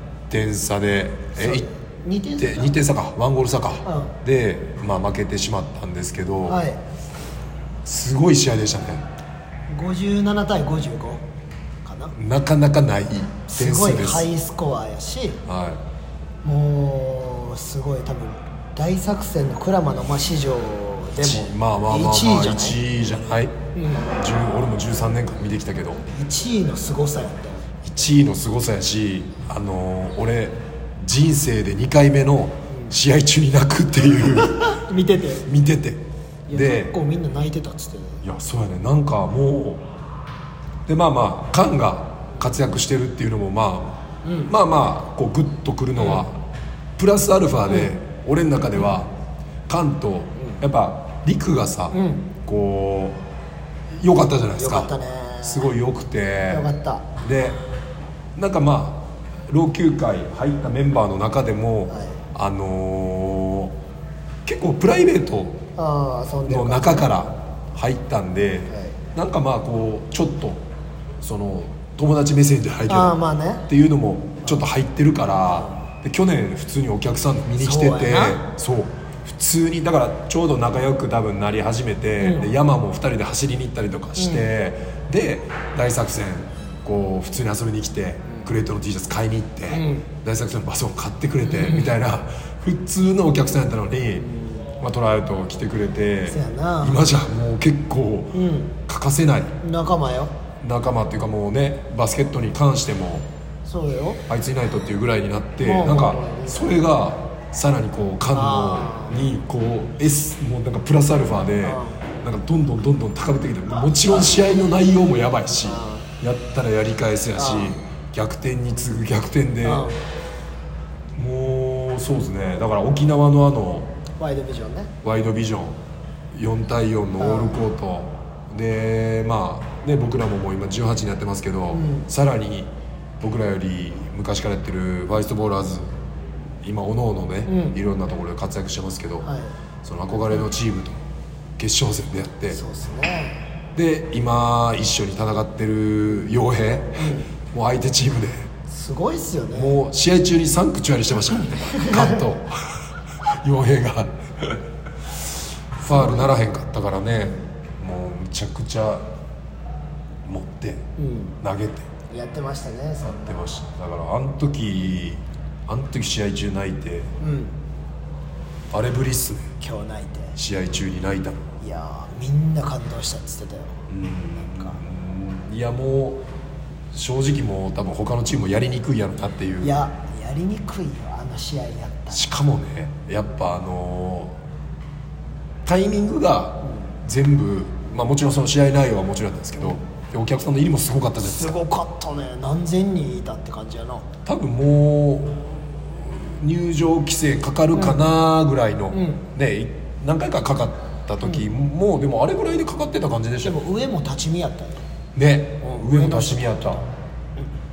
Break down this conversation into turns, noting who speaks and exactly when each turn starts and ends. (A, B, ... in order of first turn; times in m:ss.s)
0:00.3-0:01.6 A
0:01.4-0:02.7 B
0:02.4-0:06.6 A
0:03.8-0:04.1 B
0:06.4-0:06.8 B
0:07.8-0:09.0 A
0:09.7-0:11.2 B
0:11.8-0:12.1 B
0:12.1-0:14.3 A
0:13.5-0:15.4 B
0:15.4-0:15.8 A
0:16.4-0:22.8 B
0:21.2-0:26.0 A
0:23.7-0:24.1 B
0:26.1-0:27.7 B
0:27.8-0:34.8 A
0:32.7-0:33.0 B
0:34.3-0:35.5 B
0:35.4-0:36.9 A
0:36.5-0:38.2 B
0:38.2-0:39.8 A
0:40.8-0:46.4 A
0:44.2-0:44.5 B
0:47.0-0:49.1 A
0:49.7-0:53.2 A
0:51.9-0:52.3 B
0:53.9-0:56.7 A
0:54.6-0:55.7 B
0:56.5-0:57.1 B
0:57.2-0:57.6 A
0:58.3-1:03.8 A
1:01.9-1:02.2 B
1:04.4-1:05.6 A
1:05.8-1:07.1 B
1:06.4-1:10.6 A
1:08.7-1:09.0 B
1:11.2-1:34.3 A
1:12.9-1:13.6 B
1:15.5-1:15.8 B
1:17.6-1:18.4 B
1:22.2-1:22.5 B
1:24.2-1:24.5 B
1:29.7-1:30.0 B
1:31.4-1:31.9 B
1:34.2-1:34.6 B
1:34.8-1:39.6 A
1:36.3-1:37.1 B
1:38.3-1:38.7 B
1:39.6-1:40.3 B
1:40.6-1:43.3 A
1:43.6-1:44.2 B
1:44.3-1:59.9 A
1:45.6-1:46.8 B
1:48.3-1:49.2 B
1:51.6-1:52.0 B
1:53.8-1:54.3 B
1:55.6-1:56.1 B
1:57.4-1:57.8 B
1:59.6-2:00.0 B
2:01.2-2:03.9 A
2:04.2-2:04.9 B
2:05.0-2:05.8 A
2:06.3-2:15.9 A
2:07.2-2:07.6 B
2:11.7-2:12.1 B
2:16.6-2:19.3 A
2:17.4-2:17.8 B
2:19.2-2:19.5 B
2:19.8-2:21.0 A
2:21.6-2:22.6 A
2:22.5-2:23.4 B
2:23.7-2:28.5 A
2:27.0-2:27.3 B
2:28.7-2:29.8 B
2:29.5-2:39.1 A
2:31.5-2:32.2 B
2:35.8-2:36.3 B
2:40.2-2:40.9 A
2:41.0-2:41.4 B
2:41.4-2:41.9 A
2:42.1-2:43.5 B
2:43.0-2:47.1 A
2:47.2-2:47.5 B
2:48.7-2:49.5 A
2:49.6-2:50.4 B
2:50.4-2:51.4 A
2:51.6-2:53.8 B
2:53.9-2:56.2 A
2:54.4-2:54.8 B
2:56.9-2:59.8 A
2:59.6-3:02.3 B
3:02.1-3:04.4 A
3:05.6-3:11.6 A
3:11.2-3:14.1 B
3:14.2-3:23.6 A
3:17.7-3:18.0 B
3:18.9-3:19.2 B
3:23.4-3:24.8 B
3:25.1-3:26.8 A
3:25.6-3:26.8 B